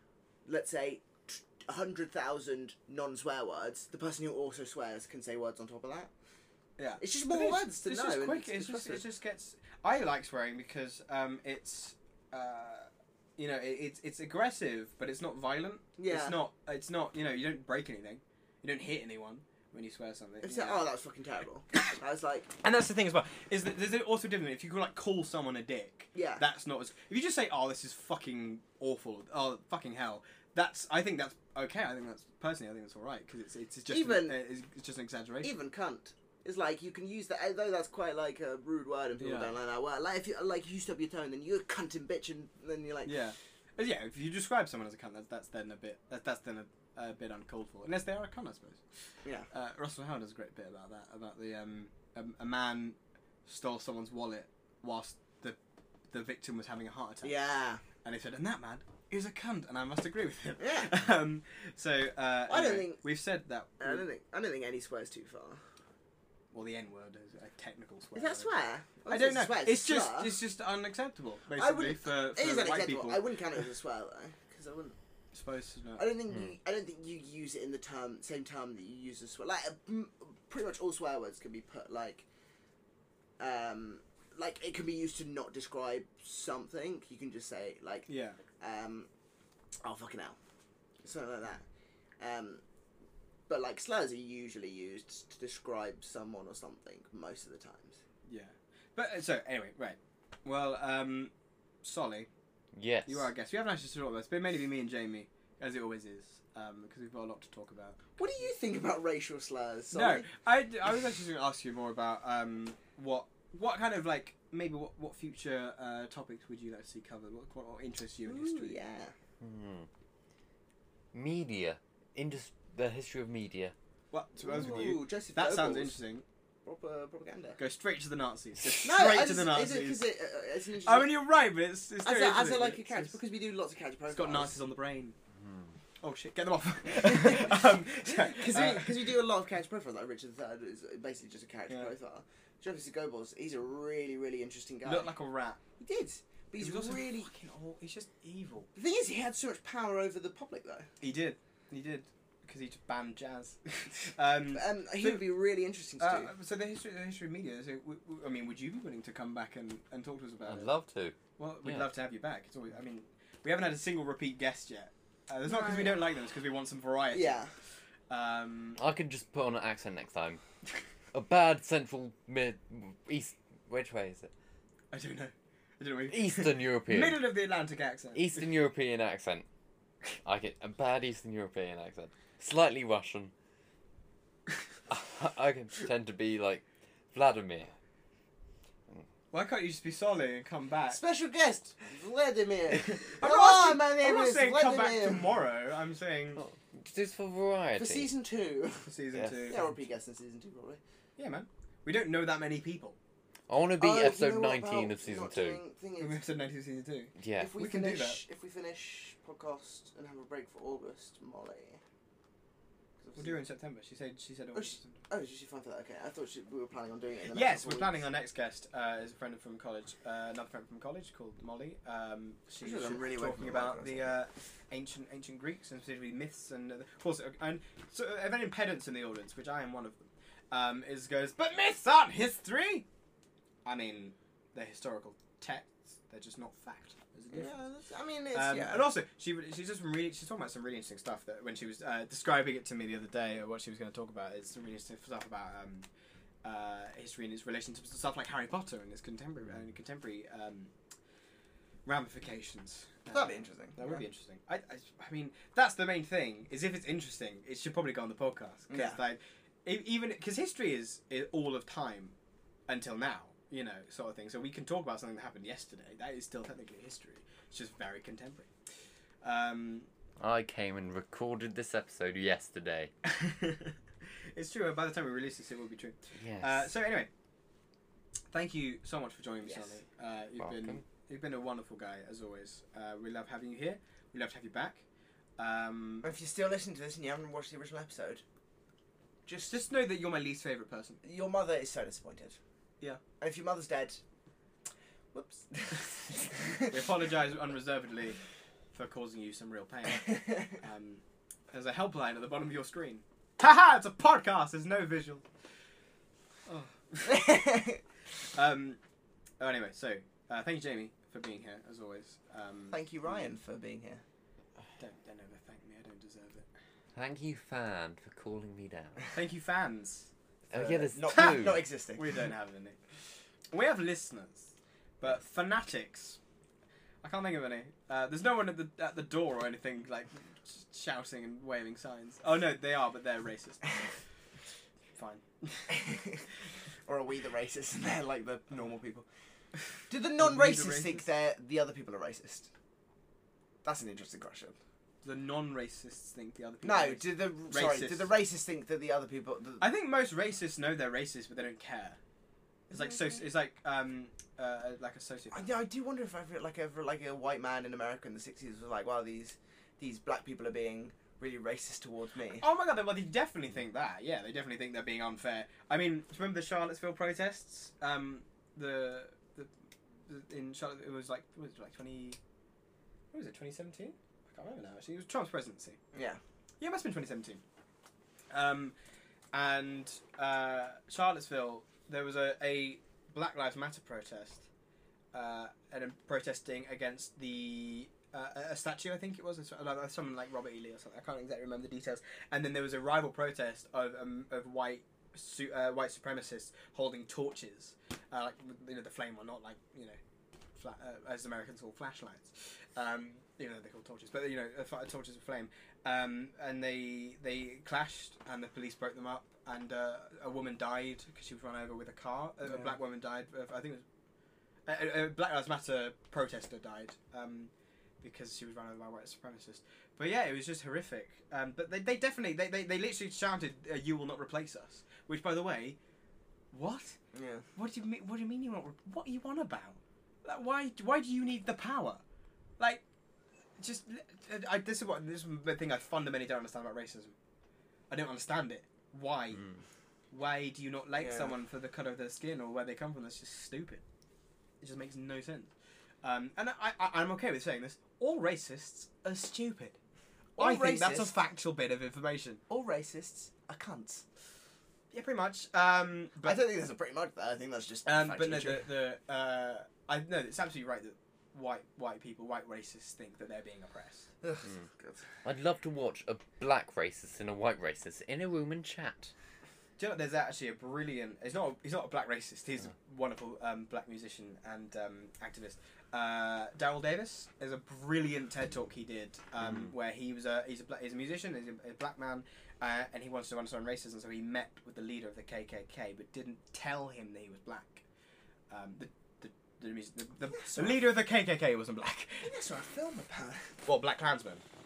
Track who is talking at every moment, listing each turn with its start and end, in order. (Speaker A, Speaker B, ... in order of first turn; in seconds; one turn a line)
Speaker A: 0.4-6.1
Speaker B: 6.8-20.8
Speaker A: 7.0-9.0
Speaker A: 16.0-16.4
Speaker A: 20.4-22.5
Speaker B: 22.6-35.5
Speaker A: 26.1-26.4
Speaker A: 33.9-34.4
Speaker A: 35.4-43.1
Speaker B: 39.2-39.5
Speaker B: 43.0-48.8
Speaker B: 49.5-55.6
Speaker B: 56.1-57.4
Speaker A: 57.2-57.8
Speaker B: 58.0-64.0
Speaker A: 60.6-60.9
Speaker A: 62.5-63.0
Speaker A: 63.8-65.6
Speaker B: 66.5-68.5
Speaker A: 68.1-70.3
Speaker B: 69.0-73.6
Speaker A: 71.5-74.9
Speaker B: 75.3-76.1
Speaker A: 76.0-82.2
Speaker C: 76.3-76.5
Speaker A: 83.4-89.1
Speaker B: 88.1-88.4
Speaker A: 89.8-90.4
Speaker A: 91.0-91.6
Speaker A: 92.2-92.6
Speaker A: 93.5-98.0
Speaker B: 98.3-101.3
Speaker B: 101.8-102.3
Speaker C: 102.7-103.3
Speaker B: 103.0-108.2
Speaker A: 108.2-110.3
Speaker B: 109.9-118.8
Speaker A: 118.2-119.1
Speaker C: 119.4-119.9
Speaker C: 121.1-123.7
Speaker B: 124.1-126.2
Speaker A: 124.4-126.0
Speaker A: 126.6-127.6
Speaker B: 127.6-130.0
Speaker A: 128.8-131.2
Speaker B: 130.8-133.2
Speaker A: 132.0-134.6
Speaker B: 134.1-135.1
Speaker C: 135.4-135.7
Speaker B: 136.0-139.0
Speaker A: 136.9-145.1
Speaker B: 144.8-145.6
Speaker A: 145.8-147.3
Speaker B: 146.6-148.7
Speaker A: 148.7-150.9
Speaker B: 151.0-155.2
Speaker A: 154.5-156.3
Speaker B: 156.0-160.7
Speaker C: 160.4-161.9
Speaker B: 161.4-167.4
Speaker A: 165.4-166.0
Speaker A: 167.1-167.5
Speaker B: 168.1-168.8
Speaker C: 168.8-170.4
Speaker C: 171.1-174.3
Speaker B: 174.9-178.5
Speaker C: 176.1-177.2
Speaker C: 178.1-179.4
Speaker C: 180.2-183.3
Speaker C: 184.9-187.7
Speaker B: 189.3-191.0
Speaker A: 190.9-195.3
Speaker B: 192.7-196.4
Speaker C: 196.4-198.1
Speaker A: 197.8-198.9
Speaker B: 198.8-199.7
Speaker C: 199.1-199.6
Speaker A: 199.5-200.8
Speaker B: 201.2-203.0
Speaker C: 203.5-205.6
Speaker A: 203.8-206.2
Speaker B: 206.0-208.2
Speaker C: 207.2-207.5
Speaker A: 207.4-211.8
Speaker A: 213.0-213.4
Speaker B: 213.2-215.0
Speaker A: 214.5-218.0
Speaker B: 217.3-230.0
Speaker A: 222.6-224.1
Speaker B: 230.5-232.8
Speaker B: 233.6-237.5
Speaker A: 237.3-238.9
Speaker B: 238.3-245.9
Speaker B: 246.4-250.7
Speaker B: 251.8-262.1
Speaker A: 253.1-254.0
Speaker A: 258.7-259.0
Speaker B: 262.7-268.5
Speaker B: 269.2-269.9
Speaker C: 270.2-272.9
Speaker B: 273.0-273.8
Speaker B: 274.3-277.1
Speaker C: 276.2-276.6
Speaker B: 278.3-284.8
Speaker A: 279.4-279.7
Speaker C: 280.4-280.8
Speaker B: 285.4-286.1
Speaker A: 286.0-288.2
Speaker A: 289.2-289.6
Speaker B: 289.5-291.0
Speaker A: 291.0-292.4
Speaker A: 293.2-294.0
Speaker A: 295.1-296.8
Speaker B: 296.7-298.2
Speaker B: 298.7-305.2
Speaker A: 300.1-300.4
Speaker B: 306.5-307.4
Speaker A: 307.0-307.8
Speaker B: 308.3-308.8
Speaker B: 309.4-313.3
Speaker A: 312.7-314.0
Speaker B: 314.8-316.4
Speaker C: 316.9-319.1
Speaker B: 319.1-320.1
Speaker C: 320.5-321.6
Speaker A: 320.5-322.2
Speaker B: 321.9-322.8
Speaker B: 323.5-326.2
Speaker B: 327.0-333.8
Speaker B: 335.0-335.9
Speaker A: 335.7-336.2
Speaker A: 336.9-339.1
Speaker A: 339.9-342.5
Speaker B: 340.2-341.0
Speaker A: 343.6-344.6
Speaker B: 345.0-348.1
Speaker A: 346.6-349.7
Speaker B: 349.6-352.0
Speaker A: 352.7-353.2
Speaker B: 352.7-355.5
Speaker A: 355.3-362.4
Speaker B: 362.4-369.5
Speaker B: 370.1-372.2
Speaker B: 373.1-375.8
Speaker A: 375.9-376.2
Speaker B: 376.6-377.4
Speaker B: 378.3-378.7
Speaker B: 379.3-384.5
Speaker B: 385.1-400.0
Speaker B: 400.6-413.8
Speaker A: 412.4-412.7
Speaker B: 414.6-425.8
Speaker B: 426.5-427.0
Speaker A: 427.1-427.4
Speaker B: 427.5-432.0
Speaker B: 433.6-437.1
Speaker B: 437.9-439.4
Speaker B: 440.1-443.8
Speaker A: 441.0-441.3
Speaker B: 444.6-445.5
Speaker B: 446.0-449.8
Speaker A: 450.4-451.1
Speaker B: 450.4-452.4
Speaker A: 452.5-454.0
Speaker B: 454.9-456.4
Speaker A: 456.2-458.7
Speaker B: 457.8-464.1
Speaker A: 464.2-465.0
Speaker C: 465.2-469.1
Speaker B: 469.8-487.8
Speaker B: 488.5-492.3
Speaker A: 490.3-490.9
Speaker A: 492.2-493.6
Speaker B: 493.6-494.4